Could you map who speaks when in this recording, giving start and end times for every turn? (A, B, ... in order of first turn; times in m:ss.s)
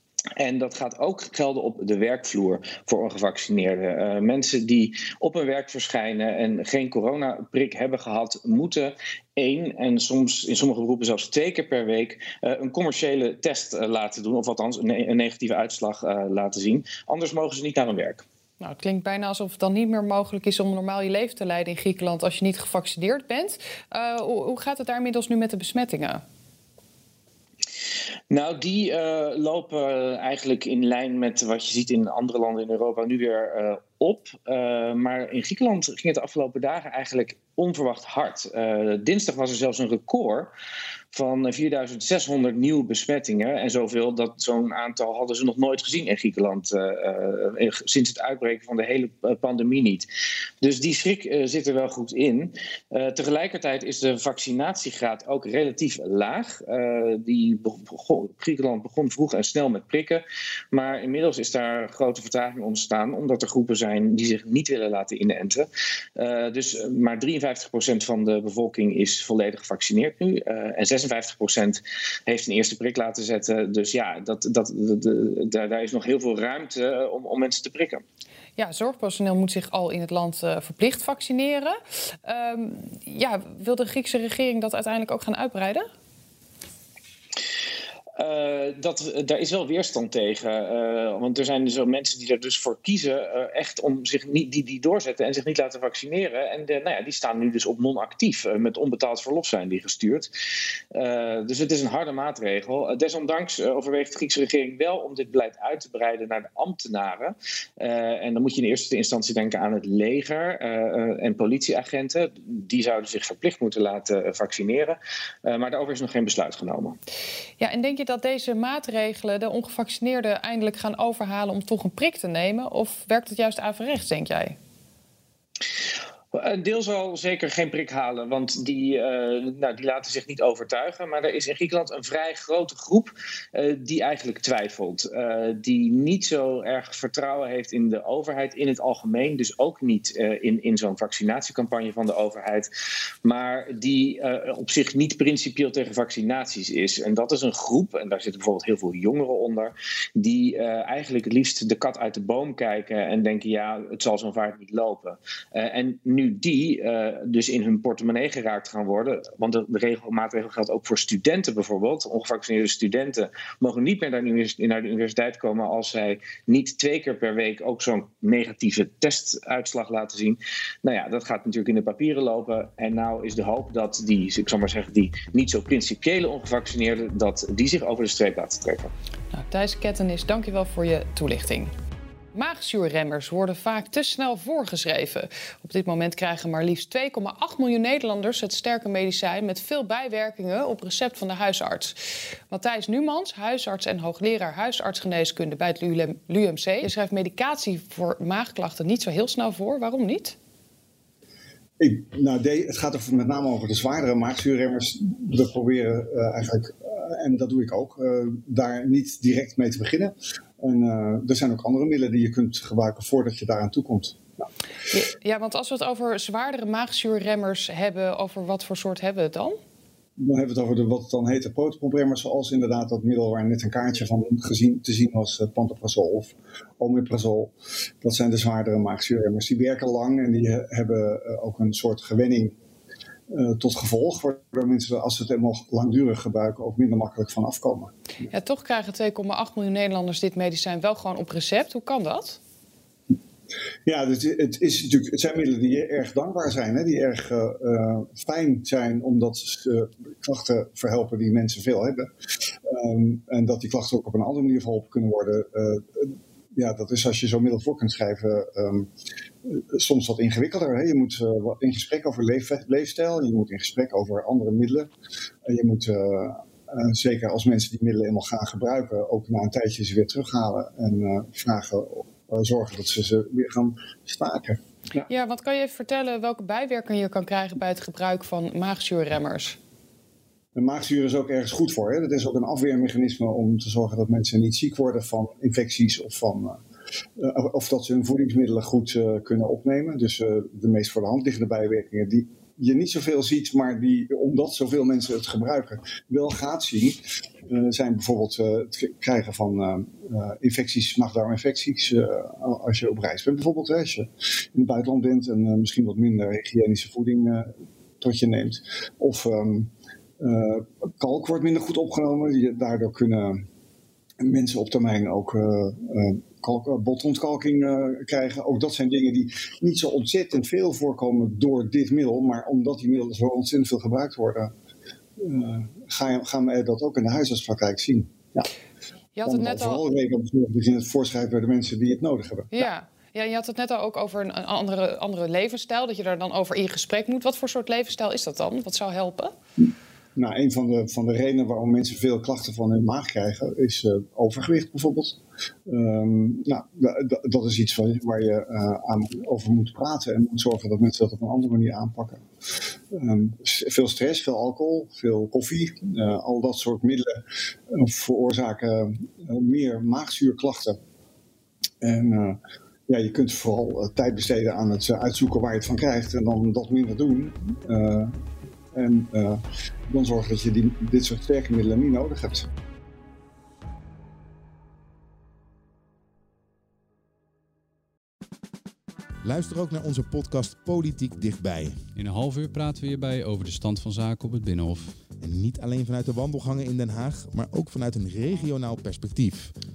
0:00.4-0:18.2 A
0:18.6-0:26.2 B
0:28.3-0:40.5 A
0:41.1-0:50.1 A
0:50.6-1:18.0 A
1:18.6-1:25.9 B
1:28.2-1:40.3 A
1:40.9-1:57.0 A
1:57.6-2:04.6 B
2:06.3-2:22.7 A
2:23.2-2:58.9 A
2:59.3-3:01.7 B
3:02.3-3:12.0 B
3:12.5-3:20.4 B
3:21.8-3:34.2 C
3:34.9-3:39.6 B
3:40.2-3:52.5 C
3:53.3-3:57.9 C
3:58.3-4:02.4 B
4:03.9-4:12.1 C
4:12.7-4:18.9 C
4:19.5-4:24.9 C
4:25.5-4:34.6 C
4:35.1-4:39.6 B
4:40.6-4:46.6 C
4:47.2-5:07.5 C
5:08.0-5:09.7 C
5:10.2-5:13.4 C
5:14.2-5:24.5 C
5:25.2-5:28.5 C
5:29.2-5:29.8 B
5:29.2-5:32.7 C
5:32.5-5:39.3 B
5:40.2-5:52.2 C
5:52.9-5:57.2 C
5:57.7-6:00.8 C
6:01.8-6:08.1 C
6:08.7-6:12.5 C
6:19.2-6:21.9 D
6:21.9-6:25.0 E
6:25.2-6:29.5 D